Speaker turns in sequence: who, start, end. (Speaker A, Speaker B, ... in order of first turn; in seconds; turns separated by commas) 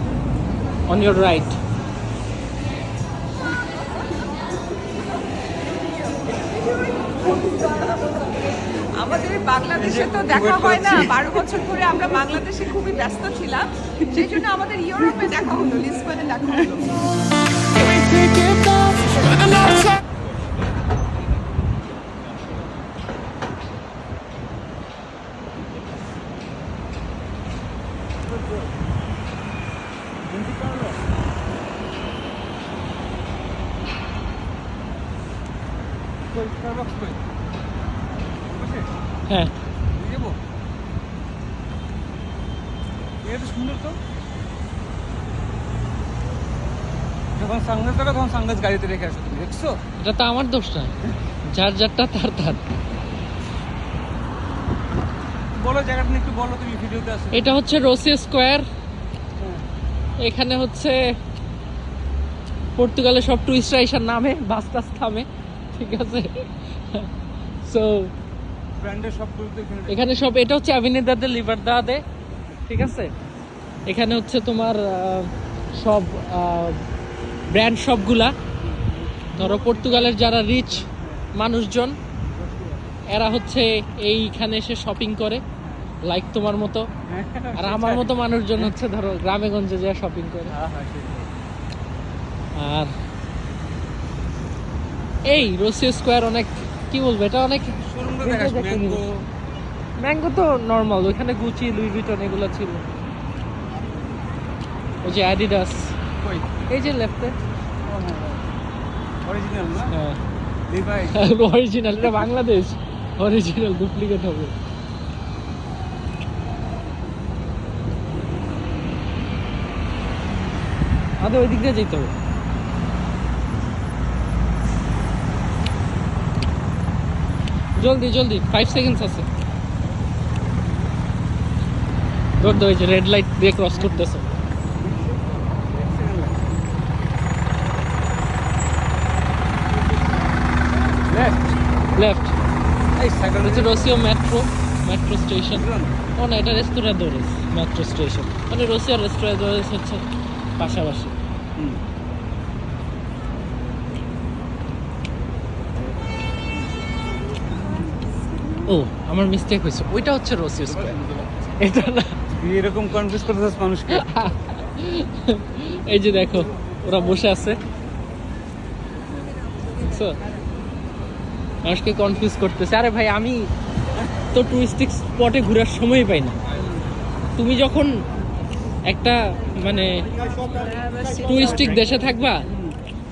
Speaker A: 0.9-1.6, Speaker B: 8.9-16.7, Speaker C: 9.6-11.5, Speaker C: 28.4-28.6, Speaker C: 30.3-31.0, Speaker C: 36.3-37.2, Speaker C: 38.4-38.9, Speaker C: 40.0-40.4, Speaker C: 43.2-44.0, Speaker C: 47.4-49.8, Speaker A: 50.0-50.9, Speaker A: 51.5-52.6, Speaker C: 55.5-57.5, Speaker A: 57.3-58.6, Speaker C: 59.4-59.6, Speaker A: 60.2-61.0, Speaker A: 62.8-67.1, Speaker A: 67.6-68.1, Speaker C: 68.8-70.1, Speaker A: 69.9-72.0, Speaker A: 72.7-73.1, Speaker A: 73.8-76.8, Speaker A: 77.5-78.3, Speaker C: 78.6-81.3, Speaker A: 79.3-82.0, Speaker C: 82.3-82.8, Speaker A: 83.1-85.4, Speaker C: 85.6-85.9, Speaker A: 86.0-86.9, Speaker C: 87.1-88.7, Speaker A: 87.5-90.5, Speaker C: 90.5-91.3, Speaker A: 92.5-92.9, Speaker A: 95.2-99.0, Speaker C: 97.8-99.3, Speaker A: 100.0-102.8, Speaker A: 105.0-106.0, Speaker C: 106.2-106.6, Speaker A: 106.7-107.3, Speaker C: 107.8-108.5, Speaker C: 109.2-109.9, Speaker A: 109.9-110.2, Speaker C: 110.7-111.2, Speaker A: 111.1-114.5, Speaker A: 121.2-122.1, Speaker A: 127.8-129.3, Speaker A: 132.4-134.3, Speaker C: 133.7-134.1, Speaker C: 134.8-135.1, Speaker C: 135.7-136.6, Speaker C: 141.0-141.6, Speaker A: 141.9-142.3, Speaker C: 142.9-144.0, Speaker A: 143.4-150.1, Speaker C: 145.5-146.0, Speaker A: 150.6-151.1, Speaker C: 151.6-151.8, Speaker A: 158.7-161.0, Speaker C: 160.8-161.3, Speaker A: 161.6-162.2, Speaker C: 162.3-164.1, Speaker A: 163.9-167.6, Speaker A: 169.8-170.2, Speaker A: 171.6-173.5, Speaker A: 174.3-176.4, Speaker A: 177.4-177.9, Speaker A: 178.8-180.1, Speaker A: 180.9-182.4